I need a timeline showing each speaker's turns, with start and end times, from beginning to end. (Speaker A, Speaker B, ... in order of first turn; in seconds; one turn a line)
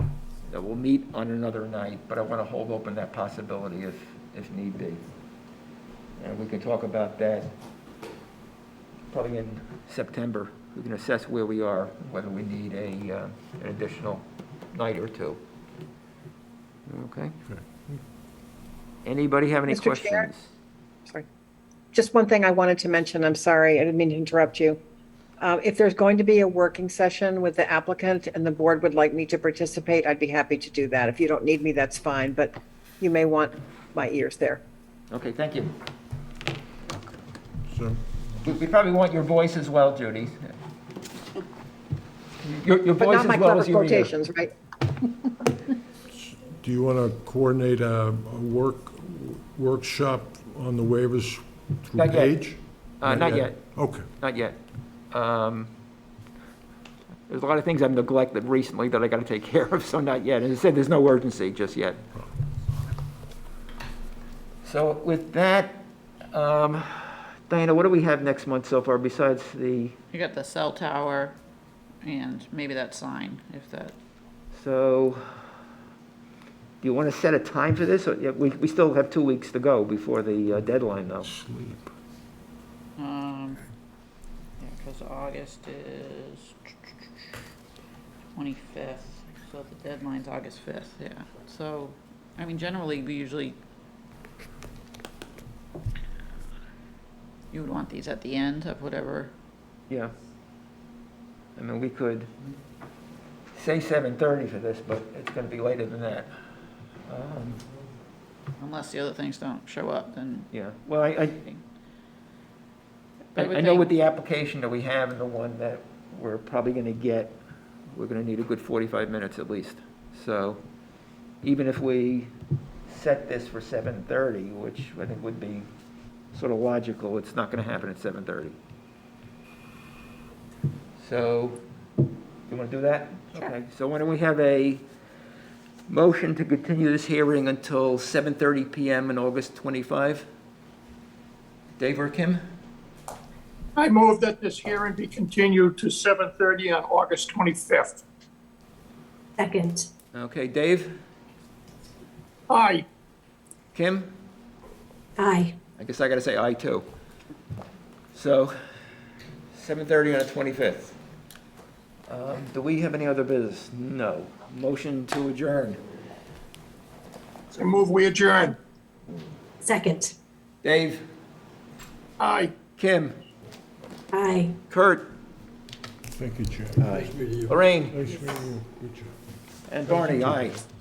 Speaker A: 0.5-5.0
Speaker A: 6.2-7.5
Speaker A: 9.1-15.4
Speaker A: 16.9-17.4
Speaker A: 19.1-20.5
Speaker B: 19.7-20.3
Speaker B: 21.9-24.8
Speaker B: 25.4-34.6
Speaker A: 35.1-35.7
Speaker A: 38.4-40.5
Speaker A: 42.4-44.1
Speaker B: 43.0-44.5
Speaker C: 46.3-52.6
Speaker A: 52.0-52.4
Speaker A: 53.0-54.6
Speaker C: 53.1-54.0
Speaker A: 55.1-55.7
Speaker A: 57.3-62.0
Speaker A: 64.6-70.0
Speaker D: 70.1-71.4
Speaker D: 72.0-74.0
Speaker A: 74.5-75.4
Speaker A: 76.8-81.4
Speaker D: 83.0-83.7
Speaker D: 84.6-86.7
Speaker D: 88.3-93.6
Speaker D: 97.5-99.3
Speaker A: 99.9-100.1
Speaker A: 101.6-102.3
Speaker A: 103.5-106.3
Speaker A: 107.1-107.6
Speaker D: 108.6-110.5
Speaker A: 110.5-111.4
Speaker D: 111.4-111.6
Speaker D: 113.3-113.9
Speaker A: 113.4-117.4
Speaker A: 117.9-120.6
Speaker A: 121.4-122.3
Speaker A: 122.9-125.7
Speaker A: 126.3-128.6
Speaker A: 131.0-131.6
Speaker A: 132.5-134.8
Speaker A: 135.9-140.3
Speaker A: 141.8-142.4
Speaker E: 143.8-148.0
Speaker F: 149.4-149.9
Speaker A: 150.1-151.0
Speaker E: 152.5-152.8
Speaker A: 153.7-154.1
Speaker F: 155.2-155.6
Speaker A: 155.8-156.8
Speaker A: 158.1-158.6
Speaker A: 159.5-161.0
Speaker A: 162.1-165.8
Speaker E: 167.5-168.6
Speaker F: 169.6-170.2
Speaker A: 170.6-171.0
Speaker E: 172.2-172.6
Speaker A: 172.8-173.1
Speaker F: 174.1-174.6
Speaker A: 174.7-175.1
Speaker C: 176.2-179.1
Speaker A: 176.8-178.0
Speaker A: 179.7-180.6